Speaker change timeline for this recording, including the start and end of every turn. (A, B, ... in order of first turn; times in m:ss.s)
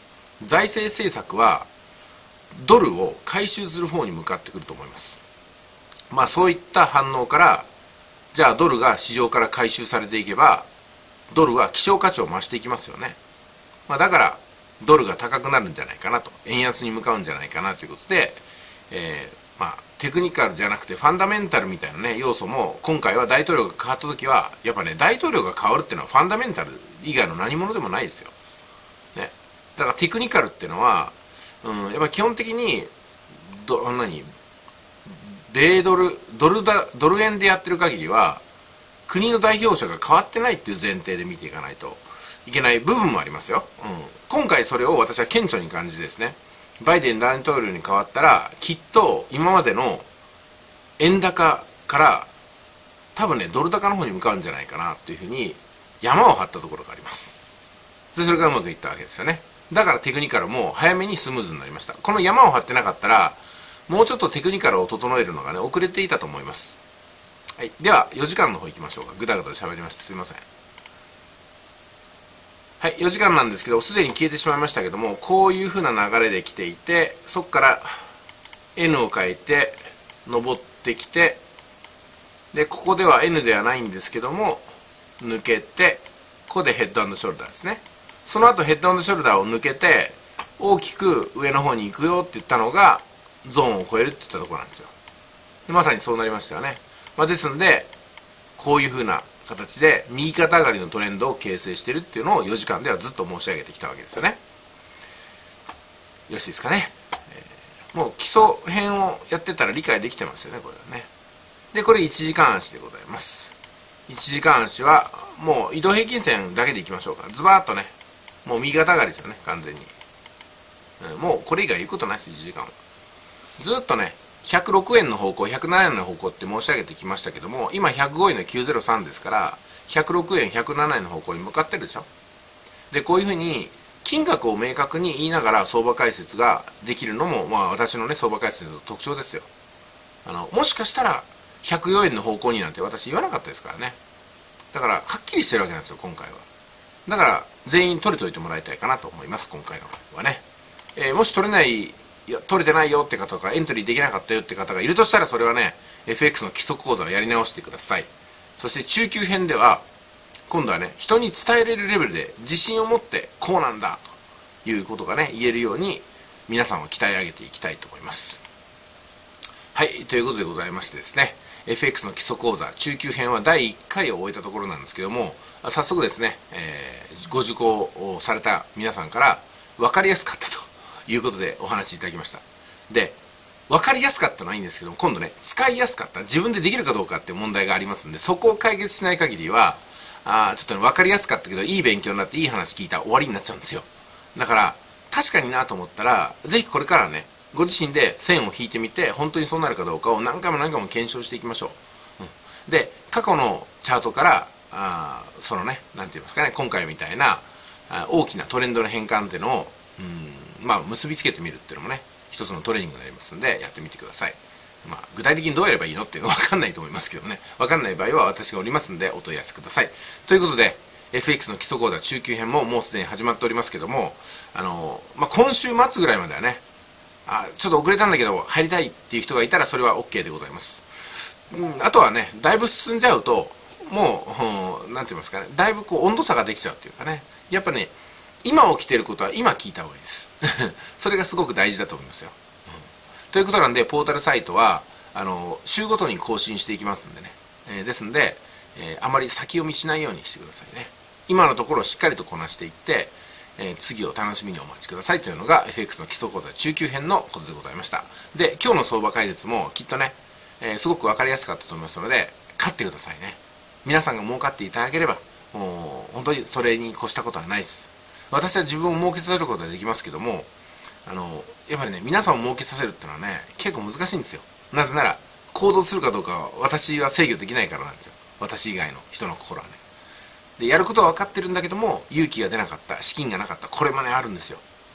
0:00.4-0:01.7 A
0:02.5-0:05.2 A
0:06.1-0:07.7 A
0:08.3-0:10.7 A
0:11.3-0:13.2 A
0:13.9-0:28.3 A
0:29.1-0:34.3 A
0:35.0-0:38.4 A
0:39.1-0:50.0 A
0:51.0-0:52.3 A
0:53.1-0:57.4 A
0:58.1-1:06.8 A
1:07.6-1:10.4 A
1:12.8-1:18.0 A
1:18.8-1:21.4 A
1:22.5-1:24.6 A
1:25.2-1:34.9 A
1:35.7-1:37.9 A
1:38.6-1:44.4 A
1:46.3-1:51.1 A
1:51.7-1:53.5 A
1:54.1-1:57.9 A
1:58.4-1:59.9 A
2:01.0-2:02.7 A
2:03.6-2:12.1 A
2:12.9-2:19.5 A
2:20.2-2:24.0 A
2:24.7-2:26.4 A
2:27.0-2:30.4 A
2:30.9-2:39.8 A
2:40.5-2:44.0 A
2:44.6-2:48.4 A
2:49.7-3:03.2 A
3:03.7-3:46.6 A
3:47.2-3:57.9 A
3:58.4-4:02.3 A
4:03.3-4:30.5 A
4:31.0-4:39.8 A
4:40.6-4:44.6 A